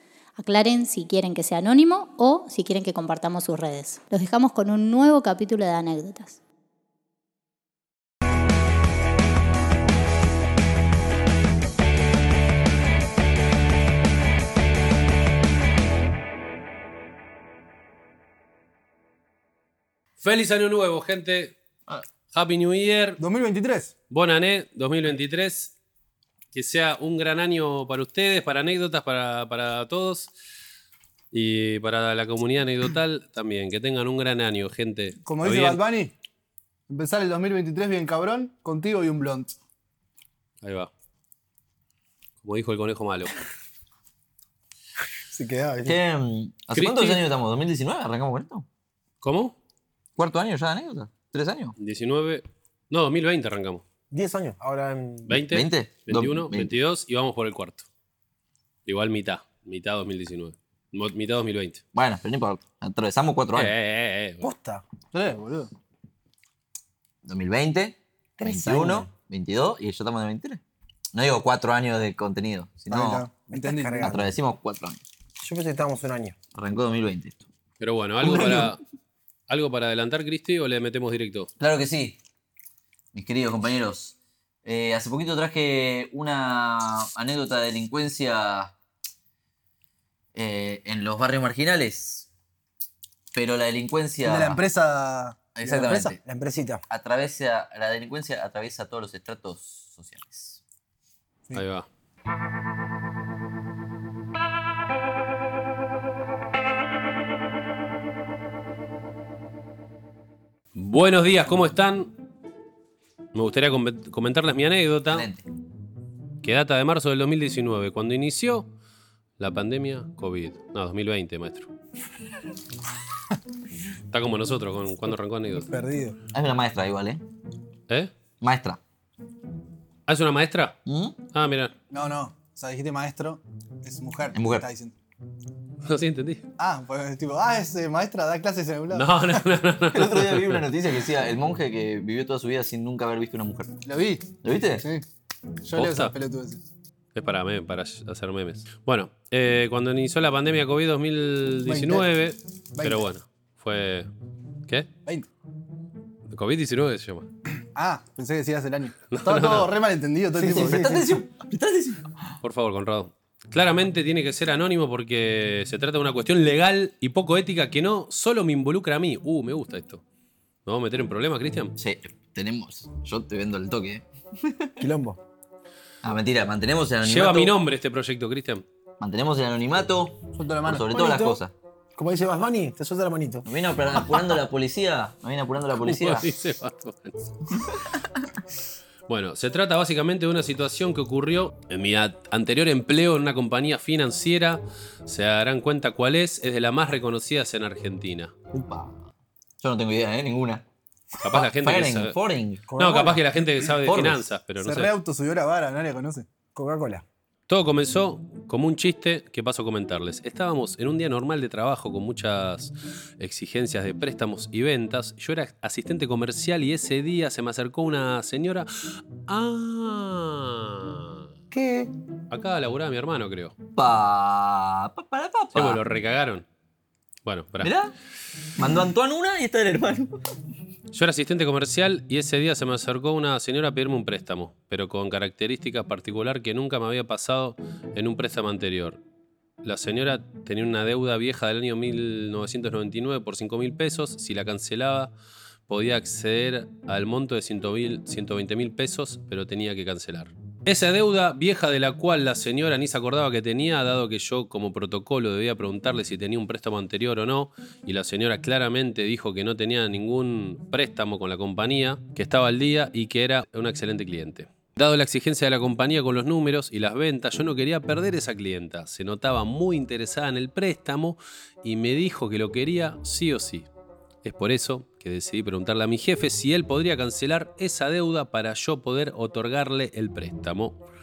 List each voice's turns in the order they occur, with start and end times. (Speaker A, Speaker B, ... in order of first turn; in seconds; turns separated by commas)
Speaker A: 0.4-6.4, Speaker B: 20.2-21.6, Speaker B: 22.3-23.2, Speaker C: 23.2-23.9, Speaker B: 24.1-25.7, Speaker B: 26.5-30.3, Speaker B: 31.3-35.8, Speaker C: 35.3-36.1, Speaker C: 36.9-39.5, Speaker B: 40.6-40.9, Speaker B: 42.4-43.4, Speaker D: 45.3-46.0, Speaker E: 45.9-48.7, Speaker B: 46.7-47.3, Speaker B: 49.2-49.5, Speaker E: 50.2-51.8, Speaker B: 51.8-53.8, Speaker D: 54.1-55.4, Speaker B: 55.3-57.9, Speaker E: 55.4-56.7, Speaker B: 58.9-61.8, Speaker E: 61.9-63.7, Speaker B: 63.5-64.5, Speaker D: 64.4-64.8, Speaker C: 65.1-65.7, Speaker E: 67.2-70.6, Speaker D: 68.4-69.1, Speaker E: 71.1-73.3, Speaker C: 72.9-74.1, Speaker D: 73.4-74.3, Speaker E: 74.0-75.0, Speaker D: 75.4-76.4, Speaker E: 76.5-77.5, Speaker B: 77.8-78.8, Speaker E: 78.2-78.8, Speaker B: 79.5-81.5, Speaker E: 81.6-82.2, Speaker E: 83.1-88.7, Speaker E: 90.3-92.3, Speaker E: 93.3-94.6, Speaker C: 94.2-95.4, Speaker E: 95.6-96.2, Speaker D: 95.7-96.8, Speaker E: 96.9-100.6, Speaker B: 101.5-101.9, Speaker B: 110.8-112.1, Speaker B: 113.3-115.3, Speaker E: 115.1-115.4, Speaker B: 116.4-118.7, Speaker B: 119.4-121.7, Speaker B: 124.1-125.7, Speaker C: 125.7-126.2, Speaker E: 126.3-127.2, Speaker E: 128.4-128.8, Speaker B: 130.1-130.8, Speaker E: 130.9-131.2, Speaker B: 131.3-131.7, Speaker C: 131.9-134.9, Speaker E: 134.3-134.7, Speaker B: 135.8-136.5, Speaker C: 136.6-139.1, Speaker B: 138.9-140.7, Speaker E: 139.9-143.8, Speaker C: 143.9-144.3, Speaker E: 144.4-144.9, Speaker C: 145.7-146.6, Speaker B: 145.8-146.1, Speaker B: 147.2-154.1, Speaker C: 151.7-152.1, Speaker C: 152.8-153.1, Speaker B: 156.3-157.3, Speaker C: 157.8-161.1, Speaker B: 159.1-159.7, Speaker E: 160.4-162.1, Speaker B: 162.4-170.0, Speaker B: 170.7-171.8, Speaker E: 171.8-174.8, Speaker D: 174.8-175.2, Speaker E: 176.0-177.6, Speaker B: 177.0-178.6, Speaker E: 179.0-181.5, Speaker C: 180.4-180.9, Speaker D: 180.9-181.4, Speaker D: 182.0-183.5, Speaker E: 183.5-186.3, Speaker B: 185.8-187.2, Speaker B: 189.1-198.3, Speaker E: 198.5-200.7, Speaker B: 201.2-202.2, Speaker E: 201.2-202.7, Speaker D: 202.7-203.2, Speaker B: 202.8-204.9, Speaker E: 203.7-204.2, Speaker C: 204.6-206.3, Speaker D: 206.5-207.0, Speaker B: 207.5-221.2, Speaker D: 221.5-221.9, Speaker B: 222.3-223.6, Speaker E: 223.8-225.8, Speaker B: 225.5-226.5, Speaker B: 227.2-227.7, Speaker E: 227.6-227.9, Speaker E: 228.6-230.2, Speaker B: 230.9-239.0, Speaker B: 239.6-245.1, Speaker B: 245.7-273.7, Speaker B: 274.2-280.8